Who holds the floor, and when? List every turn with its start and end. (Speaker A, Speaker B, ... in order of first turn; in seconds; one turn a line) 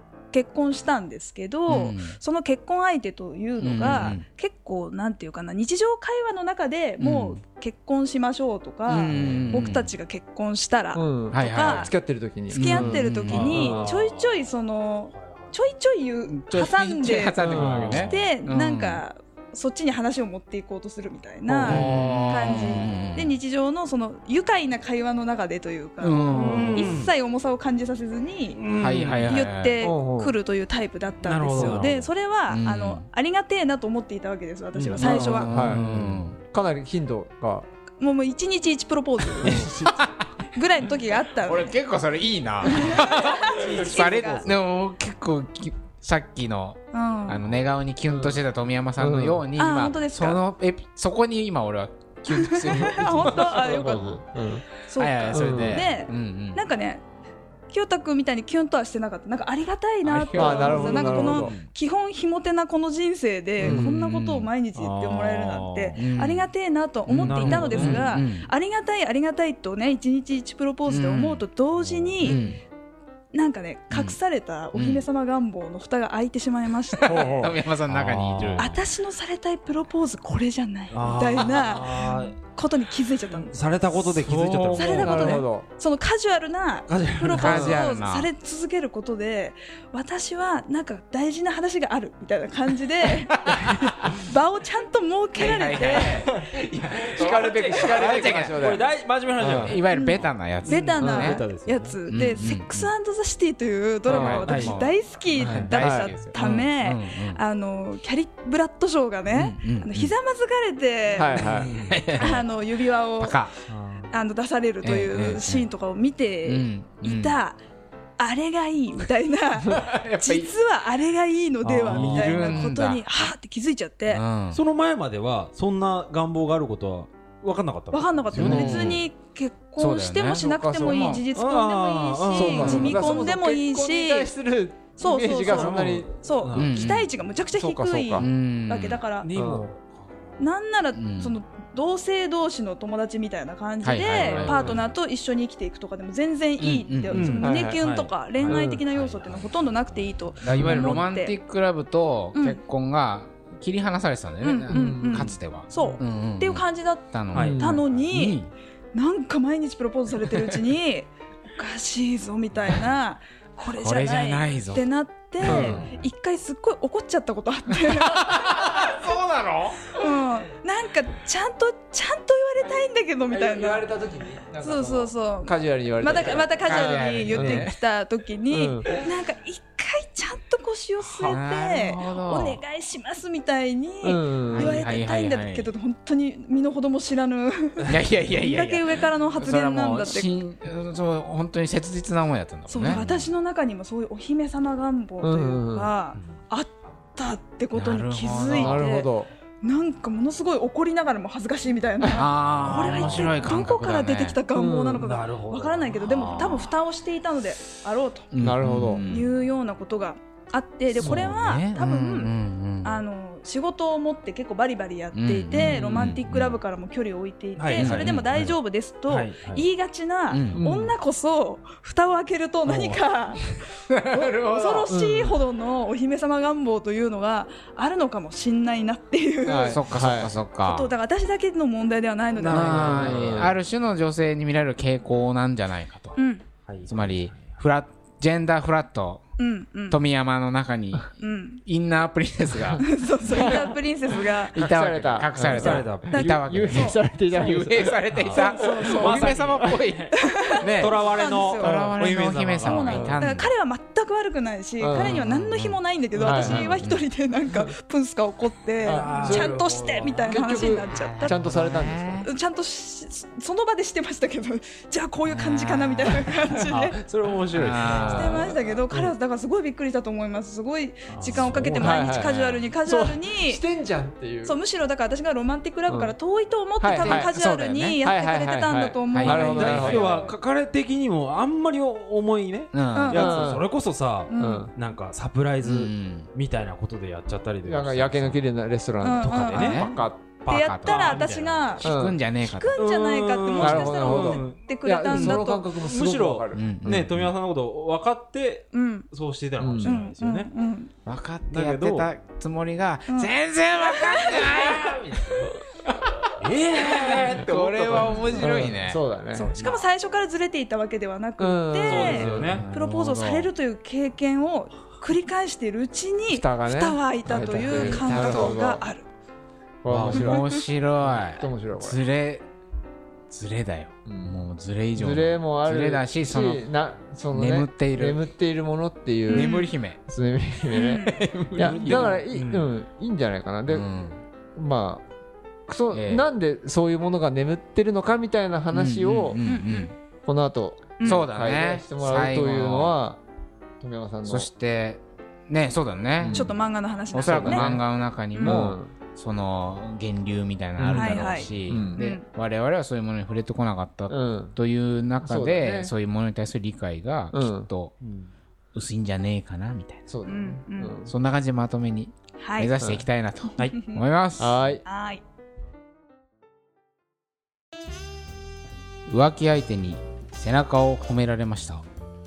Speaker A: 0.3-11.9
Speaker B: 1.7-2.2
Speaker B: 3.6-4.2
Speaker B: 7.0-7.4
Speaker B: 8.9-9.9
Speaker C: 9.1-9.6
Speaker D: 10.9-13.9
Speaker B: 11.3-11.9
Speaker A: 12.5-28.6
Speaker B: 12.5-13.5
Speaker C: 13.3-14.5
Speaker C: 15.1-15.6
Speaker B: 16.3-19.0
Speaker C: 17.4-18.1
Speaker D: 17.4-18.0
Speaker D: 21.4-21.9
Speaker C: 21.6-22.9
Speaker B: 21.7-23.3
Speaker B: 26.0-26.9
Speaker C: 26.3-27.1
Speaker D: 26.4-26.9
Speaker C: 28.6-29.4
Speaker B: 28.8-29.8
Speaker A: 29.2-35.5
Speaker D: 29.8-30.3
Speaker C: 31.2-32.1
Speaker B: 31.5-31.9
Speaker B: 32.5-33.0
Speaker B: 34.8-36.4
Speaker D: 35.0-36.0
Speaker C: 35.0-36.3
Speaker D: 36.5-37.6
Speaker A: 38.0-39.9
Speaker D: 39.4-39.8
Speaker B: 39.4-40.3
Speaker A: 40.5-41.7
Speaker B: 41.4-54.0
Speaker A: 42.6-44.5
Speaker C: 43.4-44.5
Speaker A: 46.9-47.4
Speaker D: 48.1-48.4
Speaker D: 49.0-49.5
Speaker A: 49.5-50.4
Speaker A: 52.3-54.2
Speaker D: 52.7-54.6
Speaker A: 54.8-57.0
Speaker B: 55.0-56.6
Speaker D: 55.3-55.8
Speaker A: 57.7-72.4
Speaker B: 60.0-61.2
Speaker D: 60.3-61.5
Speaker C: 61.1-61.7
Speaker B: 63.6-64.5
Speaker D: 63.6-63.9
Speaker C: 64.7-66.0
Speaker B: 66.0-66.5
Speaker B: 67.1-68.5
Speaker C: 67.2-68.1
Speaker B: 70.9-71.4
Speaker C: 71.8-72.5
Speaker B: 72.2-72.6
Speaker A: 73.3-77.4
Speaker B: 73.9-74.2
Speaker B: 74.7-75.0
Speaker D: 77.0-77.6
Speaker B: 77.1-78.7
Speaker C: 77.8-78.8
Speaker A: 78.6-83.5
Speaker C: 80.9-82.4
Speaker C: 83.3-85.4
Speaker D: 84.2-85.7
Speaker B: 84.4-85.2
Speaker A: 84.7-96.3
Speaker C: 86.9-87.7
Speaker B: 87.3-88.3
Speaker D: 87.4-87.8
Speaker B: 93.5-94.1
Speaker B: 95.3-98.6
Speaker C: 95.9-96.5
Speaker C: 97.1-99.8
Speaker D: 97.1-99.8
Speaker B: 99.4-101.4
Speaker A: 99.9-113.4
Speaker C: 100.6-102.0
Speaker D: 101.0-101.4
Speaker B: 102.1-102.9
Speaker D: 104.1-104.5
Speaker B: 104.1-107.4
Speaker C: 104.5-104.8
Speaker C: 105.3-105.7
Speaker D: 105.5-106.1
Speaker B: 109.3-110.1
Speaker D: 111.2-111.7
Speaker C: 111.5-111.9
Speaker B: 111.5-112.5
Speaker B: 113.2-113.5
Speaker C: 113.7-114.1
Speaker A: 114.1-117.6
Speaker B: 114.8-115.7
Speaker B: 116.4-117.4
Speaker A: 118.2-124.2
Speaker D: 119.6-119.9
Speaker B: 119.7-120.5
Speaker C: 121.6-122.5
Speaker B: 121.8-123.0
Speaker B: 124.1-124.6
Speaker C: 124.5-129.0
Speaker A: 127.9-134.3
Speaker B: 128.4-129.0
Speaker D: 128.4-128.8
Speaker B: 129.8-131.2
Speaker D: 130.3-131.2
Speaker C: 131.3-133.2
Speaker D: 132.3-136.1
Speaker A: 135.0-139.3
Speaker C: 135.4-136.9
Speaker B: 136.5-137.1
Speaker D: 137.6-138.3
Speaker B: 138.2-139.0
Speaker C: 139.2-140.5
Speaker D: 139.3-139.7
Speaker A: 140.4-151.3
Speaker B: 140.9-141.3
Speaker B: 143.8-144.7
Speaker D: 144.2-144.8
Speaker B: 146.6-147.3
Speaker C: 147.1-151.0
Speaker D: 147.4-147.8
Speaker D: 148.4-148.8
Speaker B: 150.4-157.6
Speaker A: 152.3-152.6
Speaker A: 154.4-158.4
Speaker D: 154.7-155.3
Speaker C: 157.3-157.6
Speaker D: 157.4-157.8
Speaker B: 158.1-158.5
Speaker A: 158.9-168.8
Speaker B: 163.7-164.8
Speaker B: 165.4-165.9
Speaker D: 165.4-165.8
Speaker B: 167.9-169.9
Speaker A: 169.9-173.9
Speaker D: 173.3-177.7
Speaker A: 174.6-190.4
Speaker B: 176.3-177.7
Speaker D: 178.5-178.9
Speaker B: 181.2-182.6
Speaker D: 184.0-184.8
Speaker B: 184.5-185.7
Speaker B: 187.8-193.0
Speaker A: 192.7-199.1
Speaker C: 192.9-193.2
Speaker D: 195.2-195.9
Speaker C: 196.1-196.4
Speaker B: 197.7-198.8
Speaker D: 198.5-199.3
Speaker A: 199.6-208.3
Speaker D: 202.0-202.2
Speaker B: 202.1-204.4
Speaker C: 202.5-203.5
Speaker D: 204.5-205.1
Speaker C: 205.0-206.5
Speaker B: 206.2-206.7
Speaker B: 208.3-209.3
Speaker D: 208.4-209.0
Speaker A: 209.1-223.5
Speaker B: 210.9-213.0
Speaker D: 211.0-211.3
Speaker B: 215.1-216.6
Speaker D: 215.5-216.2
Speaker C: 217.6-218.5
Speaker B: 217.8-218.5
Speaker C: 219.1-219.7
Speaker B: 220.3-220.6
Speaker D: 220.5-220.9
Speaker C: 222.6-223.0
Speaker B: 223.9-224.9
Speaker A: 224.1-229.8
Speaker D: 224.9-225.4
Speaker D: 229.4-230.3
Speaker B: 229.7-230.9
Speaker A: 230.6-233.2
Speaker C: 232.3-233.5
Speaker B: 232.5-236.2
Speaker D: 233.1-233.6
Speaker A: 236.2-236.4
Speaker C: 236.7-237.6
Speaker B: 236.8-239.2
Speaker A: 239.4-240.0
Speaker B: 239.9-243.6
Speaker A: 241.2-241.6
Speaker D: 242.6-243.7
Speaker A: 242.8-244.5
Speaker B: 244.3-253.5
Speaker D: 244.5-248.8
Speaker C: 245.3-246.1
Speaker A: 246.1-247.0
Speaker C: 248.1-253.2
Speaker A: 248.3-249.3
Speaker A: 250.2-251.8
Speaker D: 251.6-251.9
Speaker A: 252.6-261.4
Speaker D: 252.8-253.2
Speaker D: 254.8-255.2
Speaker B: 254.9-257.0
Speaker D: 256.1-256.7
Speaker D: 258.8-259.6
Speaker C: 258.8-260.4
Speaker D: 260.3-262.2
Speaker B: 260.7-262.3
Speaker A: 262.2-267.0
Speaker B: 265.4-266.2
Speaker C: 266.7-268.6
Speaker B: 267.5-268.3
Speaker A: 267.9-273.6
Speaker D: 268.0-269.1
Speaker C: 271.1-272.3
Speaker B: 271.3-271.9
Speaker D: 271.4-274.6
Speaker A: 274.4-280.3
Speaker D: 275.9-276.1
Speaker D: 276.8-277.4
Speaker B: 276.9-278.0
Speaker D: 278.0-280.2
Speaker B: 279.1-280.2
Speaker C: 279.3-288.5
Speaker B: 282.7-283.2
Speaker A: 282.9-283.4
Speaker D: 283.1-283.7
Speaker A: 284.3-284.7
Speaker D: 284.4-284.7
Speaker B: 285.6-286.3
Speaker D: 287.6-290.3
Speaker A: 289.0-289.9
Speaker B: 289.2-289.9
Speaker C: 289.2-291.8
Speaker A: 290.5-295.7
Speaker B: 290.5-291.1
Speaker B: 291.8-292.8
Speaker D: 291.8-292.2
Speaker C: 292.7-300.5
Speaker D: 293.6-296.7
Speaker B: 296.5-297.3
Speaker A: 298.7-299.1
Speaker D: 299.6-300.0
Speaker A: 299.8-300.9
Speaker B: 301.1-309.0
Speaker C: 301.5-302.1
Speaker A: 303.1-304.8
Speaker C: 304.9-305.4
Speaker C: 306.4-308.8
Speaker D: 307.2-309.5
Speaker A: 309.3-319.1
Speaker C: 309.4-309.8
Speaker D: 311.4-312.6
Speaker C: 311.8-312.7
Speaker B: 312.4-313.5
Speaker D: 316.3-318.8
Speaker B: 317.4-318.6
Speaker D: 319.8-320.4
Speaker B: 319.9-322.4
Speaker A: 320.1-320.4
Speaker D: 321.1-322.0
Speaker B: 323.3-326.6
Speaker D: 324.1-333.9
Speaker B: 327.3-328.2
Speaker A: 329.3-329.7
Speaker B: 329.3-330.0
Speaker A: 330.7-331.2
Speaker B: 331.0-332.2
Speaker C: 331.6-332.7
Speaker B: 333.7-334.2
Speaker D: 334.6-335.0
Speaker D: 335.7-339.4
Speaker B: 335.9-336.3
Speaker B: 338.7-339.9
Speaker A: 339.4-339.9
Speaker D: 340.2-343.2
Speaker A: 341.0-341.2
Speaker B: 341.0-343.0
Speaker D: 343.8-344.5
Speaker B: 344.2-346.5
Speaker D: 346.2-346.5
Speaker A: 346.3-347.7
Speaker B: 347.1-357.9
Speaker D: 347.1-347.9
Speaker A: 348.3-348.7
Speaker D: 348.4-348.9
Speaker D: 350.8-352.0
Speaker A: 350.9-352.2
Speaker D: 354.1-354.6
Speaker D: 355.2-355.9
Speaker D: 357.3-357.7
Speaker C: 358.0-358.3
Speaker B: 358.7-360.1
Speaker D: 360.1-361.1
Speaker A: 360.2-360.9
Speaker B: 361.1-364.7
Speaker A: 362.4-362.7
Speaker D: 362.8-363.1
Speaker D: 364.4-364.8
Speaker A: 364.8-365.2
Speaker B: 369.1-371.8